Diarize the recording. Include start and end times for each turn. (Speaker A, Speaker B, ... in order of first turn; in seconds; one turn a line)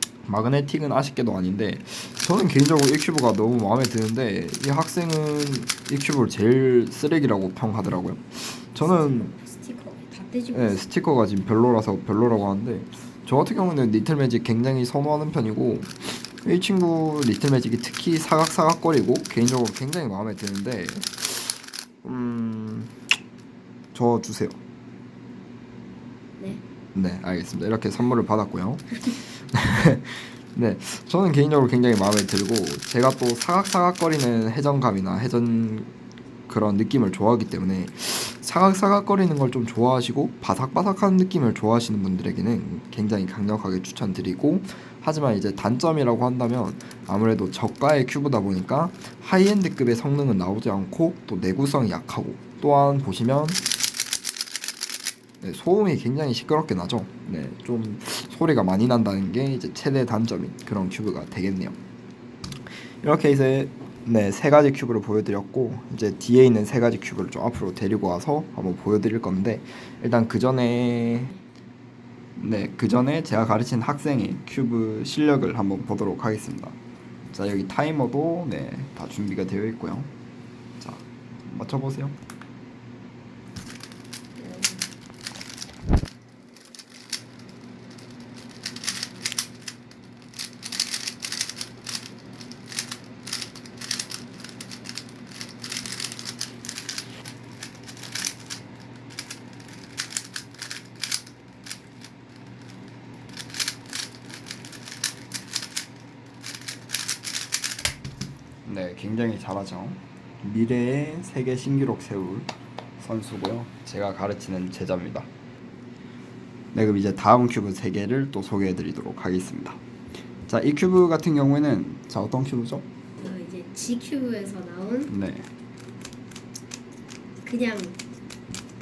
Speaker A: 0.3-9.3
Speaker B: 8.8-10.8
Speaker A: 10.5-22.9
Speaker A: 23.9-24.6
Speaker A: 26.9-35.9
Speaker A: 36.5-53.6
Speaker A: 55.4-61.8
Speaker A: 63.0-71.3
Speaker A: 72.4-76.8
Speaker A: 77.3-80.1
Speaker A: 80.8-82.2
Speaker B: 84.4-84.9
Speaker A: 108.7-115.3
Speaker A: 116.7-119.8
Speaker A: 120.5-122.8
Speaker B: 123.2-125.1
Speaker A: 125.1-125.5
Speaker B: 127.4-128.0